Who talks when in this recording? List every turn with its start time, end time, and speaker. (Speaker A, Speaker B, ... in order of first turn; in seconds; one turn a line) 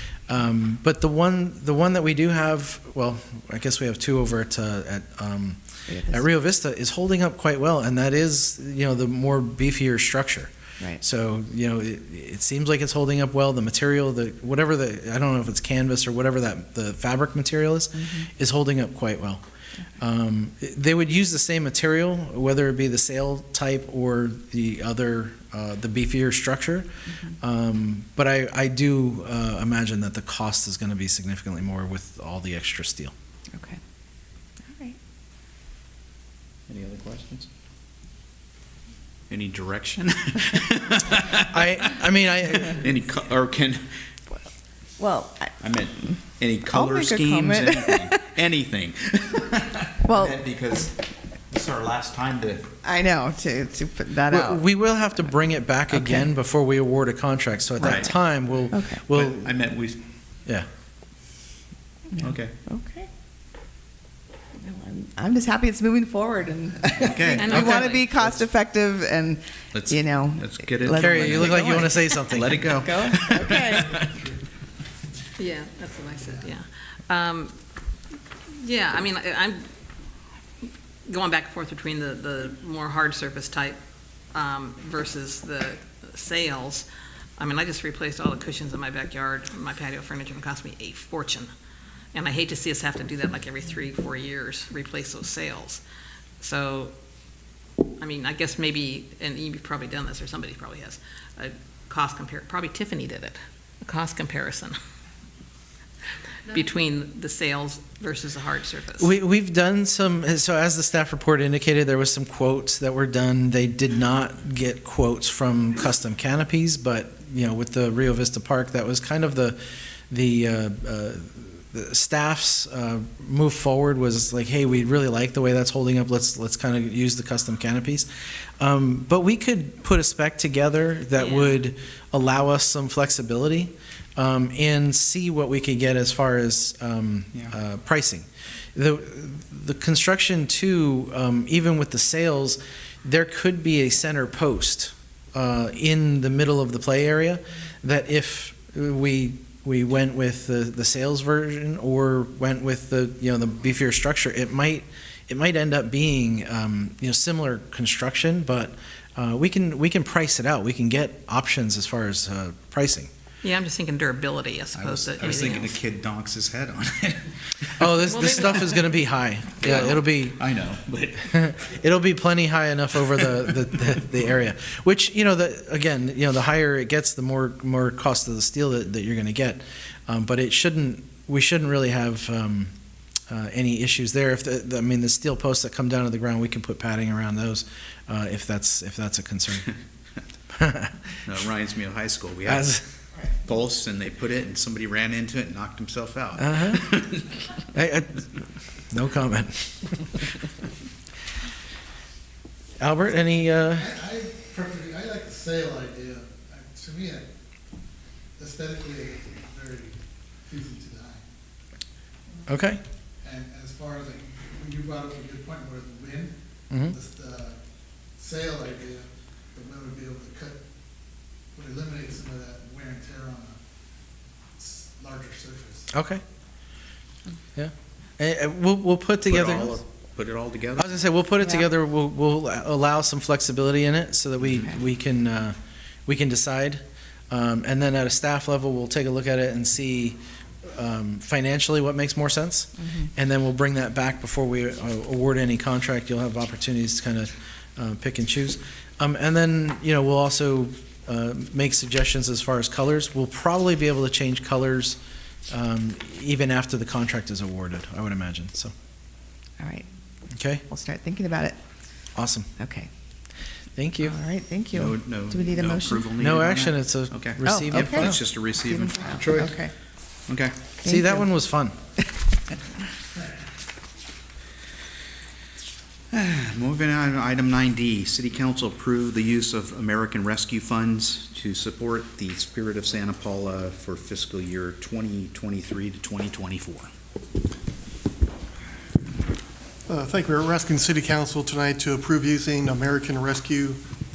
Speaker A: 0.3-19.4
Speaker B: 5.9-6.2
Speaker A: 20.0-33.1
Speaker B: 34.7-35.0
Speaker C: 36.7-37.5
Speaker C: 39.3-43.9
Speaker A: 41.3-42.9
Speaker B: 45.0-45.6
Speaker C: 45.6-51.0
Speaker B: 46.7-48.2
Speaker B: 50.0-50.4
Speaker C: 51.5-52.7
Speaker B: 52.8-54.6
Speaker A: 54.3-59.5
Speaker B: 55.9-56.3
Speaker C: 57.8-58.1
Speaker B: 58.7-59.0
Speaker C: 59.1-60.0
Speaker B: 62.1-63.1
Speaker C: 62.2-62.5
Speaker B: 64.6-74.0
Speaker C: 66.9-68.4
Speaker D: 67.3-68.1
Speaker C: 69.7-74.0
Speaker A: 71.0-73.6
Speaker D: 75.4-77.5
Speaker D: 78.6-79.7
Speaker D: 81.1-83.8
Speaker D: 84.3-91.5
Speaker D: 92.1-95.8
Speaker D: 96.4-96.9
Speaker D: 98.0-104.8
Speaker D: 106.5-109.1
Speaker A: 109.0-163.1
Speaker D: 131.2-131.6
Speaker D: 163.4-165.7
Speaker C: 164.8-167.9
Speaker A: 167.8-170.4
Speaker D: 168.1-168.8
Speaker C: 169.6-171.5
Speaker A: 171.3-182.7
Speaker A: 183.3-189.7
Speaker A: 190.5-190.9
Speaker C: 191.3-192.7
Speaker A: 192.5-192.8
Speaker C: 193.4-197.3
Speaker A: 196.4-196.8
Speaker A: 197.7-198.2
Speaker A: 198.9-200.2
Speaker A: 202.8-204.0
Speaker E: 204.0-207.2
Speaker E: 208.4-209.9
Speaker E: 210.5-211.2
Speaker A: 212.5-212.8
Speaker E: 213.3-216.3
Speaker A: 216.7-217.0
Speaker E: 217.0-217.5
Speaker E: 218.2-219.1
Speaker E: 219.6-220.6
Speaker E: 221.6-223.5
Speaker E: 224.7-225.8
Speaker A: 225.9-226.2
Speaker A: 227.6-229.8
Speaker C: 229.3-230.9
Speaker A: 230.8-255.0
Speaker A: 255.5-258.7
Speaker B: 259.6-259.9
Speaker A: 260.4-260.6
Speaker B: 260.7-261.6
Speaker A: 262.2-262.5
Speaker B: 262.6-262.9
Speaker A: 263.8-264.2
Speaker B: 264.0-266.1
Speaker C: 264.7-269.6
Speaker A: 266.2-268.2
Speaker B: 267.5-269.7
Speaker C: 270.3-270.6
Speaker B: 270.8-271.3
Speaker A: 270.8-271.8
Speaker C: 276.1-286.9
Speaker F: 289.9-293.8